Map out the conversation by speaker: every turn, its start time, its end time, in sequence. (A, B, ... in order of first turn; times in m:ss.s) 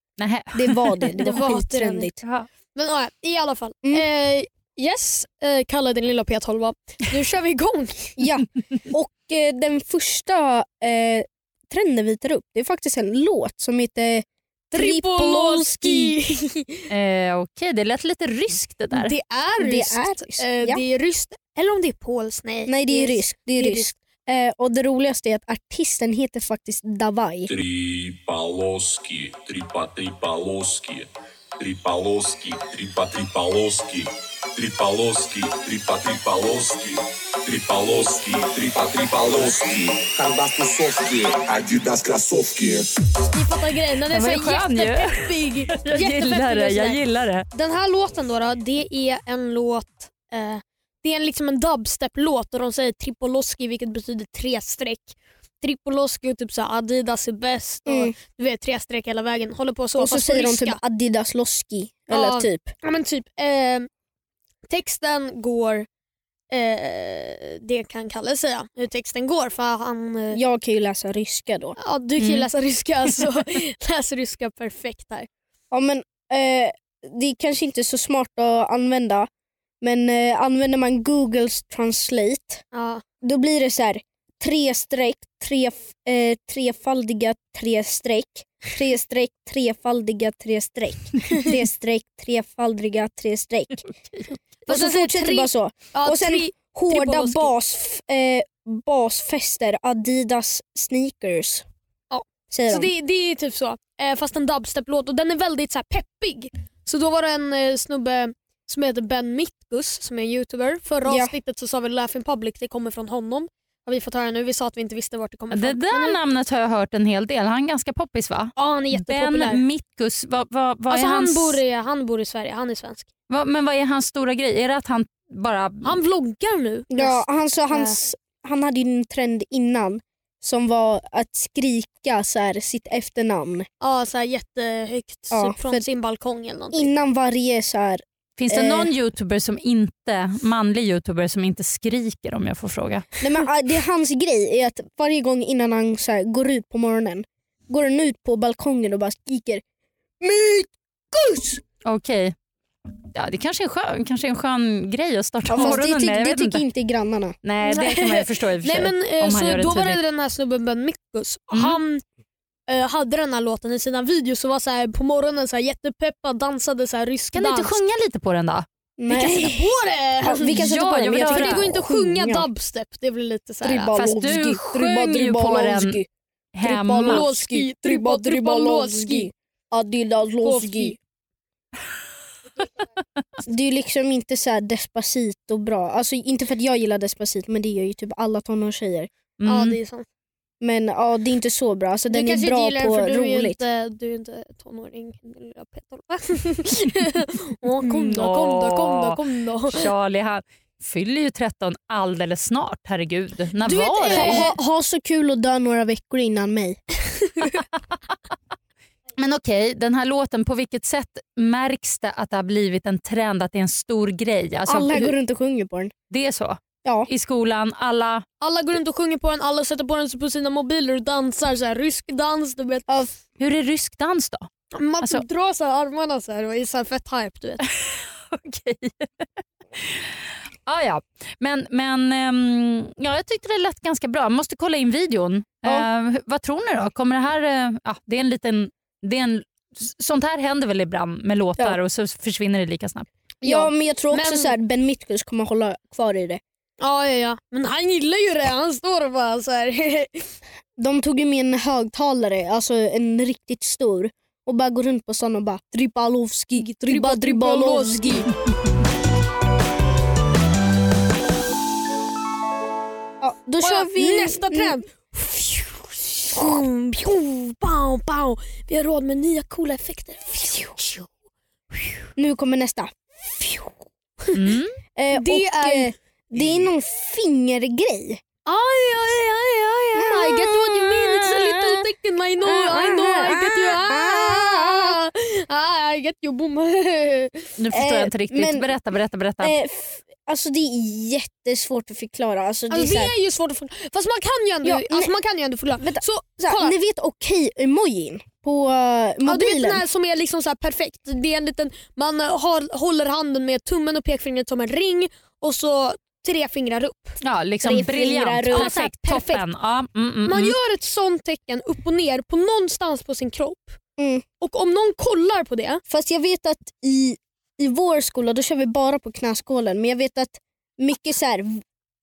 0:00.2-0:01.2 A
0:00.5-0:02.2 B
0:01.2-0:02.1 C
0:02.2-0:02.5 A
0:02.8-0:08.2 C
0:08.2-0:16.2 B
0:14.7-0:16.9 C
0:16.9-0:19.1 A
0:18.9-0:24.0 C
0:19.6-0:20.8 B
0:22.7-0:27.5 B
0:27.5-0:42.9 D
0:43.2-1:00.8 C
0:44.1-0:47.4 A
0:57.9-0:58.1 B
1:00.0-1:02.7 B
1:02.1-1:03.9 C
1:04.7-1:05.9 C
1:06.5-1:10.4 C
1:10.3-1:11.8 B
1:11.8-1:15.3 C
1:12.2-1:12.5 A
1:15.7-1:19.3 B
1:19.8-1:22.6 B
1:22.7-1:23.0 C
1:23.2-1:33.9 B
1:34.6-1:37.5 C
1:34.7-1:41.7 B
1:42.1-1:56.2 C
1:42.5-1:42.9 B
1:51.0-1:51.3 B
1:55.5-2:01.6 A
1:58.6-1:59.6 C
2:00.9-2:03.1 C
2:03.3-2:06.0 A
2:05.8-2:08.0 C
2:06.9-2:13.7 B
2:13.8-2:16.9 C
2:15.3-2:15.8 B
2:16.7-2:18.9 B
2:18.4-2:23.1 A
2:23.2-2:29.6 B
2:30.2-2:31.6 B
2:31.8-2:32.4 A
2:33.1-2:36.6 A
2:35.5-2:37.4 B
2:37.4-2:40.0 A
2:37.6-2:42.0 C
2:41.5-2:41.8 A
2:42.7-2:47.8 C
2:47.3-2:48.7 A
2:49.0-2:49.6 B
2:49.1-2:54.0 C
2:50.2-2:52.5 B
2:50.4-2:51.7 A
2:53.6-2:56.1 B
2:53.9-2:56.0 A
2:56.5-2:57.2 A
2:56.6-3:01.0 B
2:57.0-2:59.3 C
3:00.4-3:01.0 C
3:03.4-3:09.1 B
3:09.4-3:09.8 A
3:09.4-3:10.0 C
3:10.6-3:13.6 B
3:12.1-3:19.9 C
3:17.8-3:19.2 A
3:19.7-3:24.4 A
3:23.6-3:24.6 C
3:24.1-3:26.8 B
3:29.2-3:35.1 A
3:34.7-3:35.9 B
3:36.1-3:38.2 A
3:36.8-3:37.1 B
3:38.4-3:43.0 C
3:43.4-3:44.5 A
3:44.7-3:47.7 C
3:47.6-4:03.1 A
4:03.4-4:04.5 C
4:03.4-4:06.4 B
4:06.8-4:10.3 C
4:10.8-4:18.2 B
4:16.6-4:18.3 C
4:23.2-4:24.8 B
4:23.6-4:31.1 C
4:26.4-4:26.6 B
4:31.7-4:32.1 C
4:32.2-4:33.8 B
4:34.3-4:34.8 A
4:35.0-4:38.2 B
4:35.1-4:35.9 C
4:38.4-4:47.5 C
4:39.9-4:41.8 B
4:42.4-4:45.0 B
4:47.6-4:49.6 A
4:47.7-4:48.7 B
4:49.4-4:53.1 B
4:52.7-4:56.8 C
4:54.6-4:55.1 B
4:55.8-4:59.8 B
4:59.2-5:07.2 C
5:07.2-5:10.6 A
5:07.6-5:08.7 B
5:08.5-5:09.4 C
5:10.3-5:13.8 C
5:14.0-5:14.2 B
5:14.4-5:15.8 C
5:15.9-5:21.6 B